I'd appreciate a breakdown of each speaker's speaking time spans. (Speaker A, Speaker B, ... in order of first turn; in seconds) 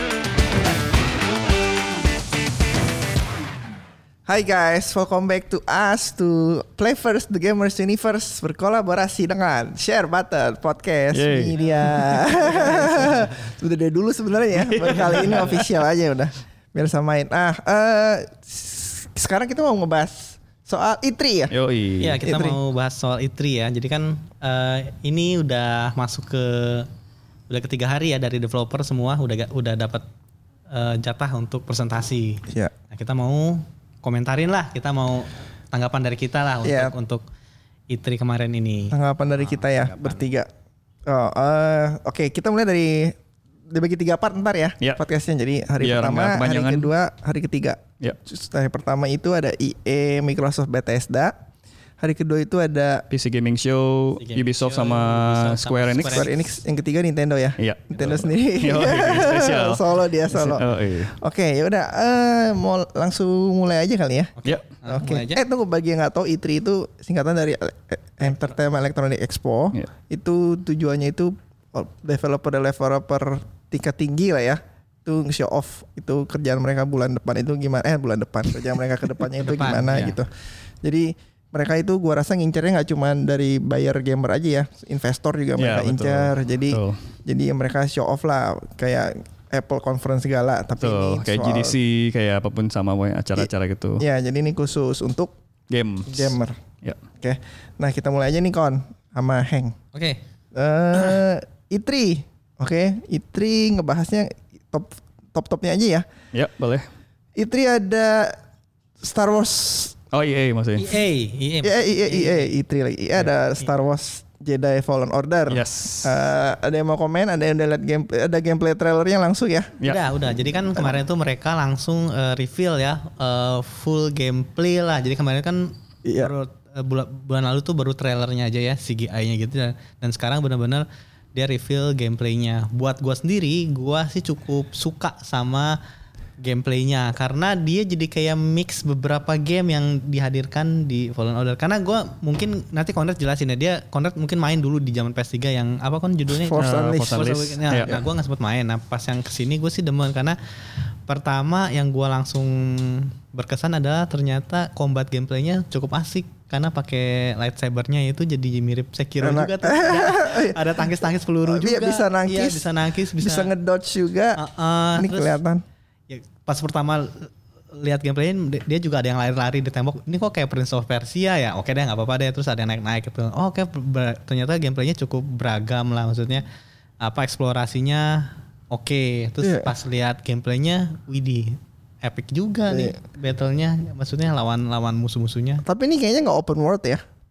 Speaker A: 4.2-21.5, 22.2-22.6, 32.5-32.7, 36.6-36.9, 38.9-40.5, 41.1-43.1, 43.7-51.3, 52.0-53.0, 56.0-64.3, 64.9-80.3, 80.8-91.8, 94.0-95.3, 96.1-96.6, 97.2-99.8, 100.5-106.0, 107.3-108.4, 109.0-109.9, 111.6-119.8, 126.0-126.3, 146.4-147.3, 159.2-162.7, 163.2-164.4, 164.9-165.6, 179.4-179.7, 182.7-182.9, 185.6-187.0
Speaker B: 11.1-11.6, 14.5-15.6, 21.5-22.2, 45.8-46.9, 53.1-56.3, 57.6-61.1, 85.6-87.0, 90.8-94.0, 95.7-97.0, 106.3-106.8, 110.1-111.0, 115.5-116.1, 146.6-148.0
Speaker C: 11.6-13.3, 14.9-15.6, 22.0-26.9, 27.5-30.0, 30.7-37.2, 37.9-40.2, 54.2-56.3, 64.4-65.4, 79.4-80.2, 99.9-100.2, 110.8-112.5, 119.8-135.8, 136.4-150.4, 151.1-163.5, 164.4-165.4, 166.1-176.4, 177.0-185.6